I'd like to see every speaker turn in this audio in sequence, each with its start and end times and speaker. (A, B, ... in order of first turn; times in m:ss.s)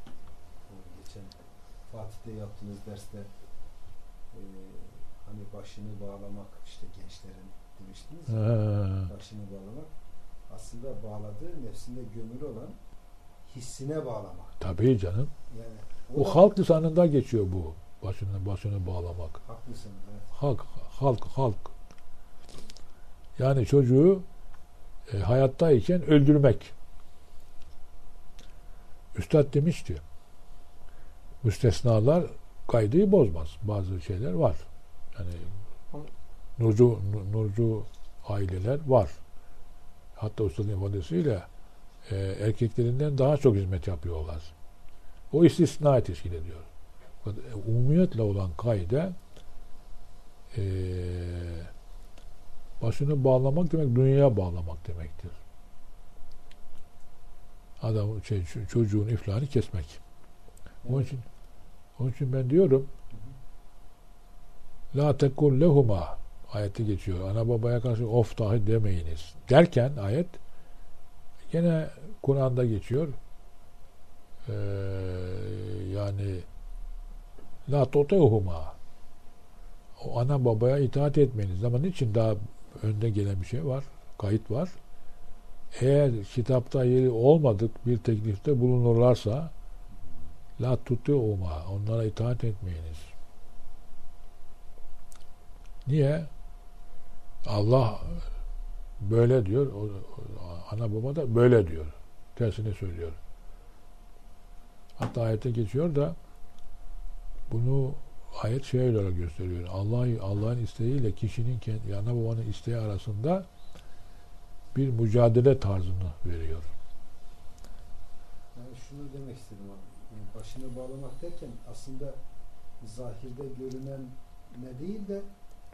0:00.7-0:01.4 A
0:01.9-0:03.3 A
0:04.3-0:09.9 A
0:08.4-0:09.1 B
0:10.5-0:12.8 A
0:13.5-0:14.6 A
0:14.6-0:15.3 B
0:15.5-0:16.4 A
0:16.1-0:19.4 B
0:19.4-0:20.3 A
0:20.3-0:21.7 B
0:23.4-0:24.2 B
0:25.1-0:26.7 B
0:29.1-0:30.0 B
0:31.4-0:34.6 B
0:35.1-0:35.5 B
0:36.6-0:39.2 B
0:40.2-0:41.5 B
0:42.0-0:44.5 B
0:45.3-0:46.7 B
0:47.2-0:49.1 B
0:50.5-0:51.7 B
0:52.8-0:55.4 B
0:57.8-1:00.0 B
1:00.8-1:01.1 A
1:00.8-1:01.2 B
1:02.0-1:02.9 B
1:04.9-1:10.4 B
1:11.5-1:13.1 B
1:14.4-1:16.4 B
1:17.7-1:18.7 B
1:20.0-1:24.7 B
1:25.7-1:29.5 B
1:30.6-1:33.0 B
1:35.8-1:36.3 B
1:37.4-1:38.2 B
1:39.0-1:43.2 B
1:45.0-1:46.2 B
1:47.5-1:53.5 B
1:54.7-1:56.7 B
1:58.5-2:02.2 A
2:02.8-2:05.3 A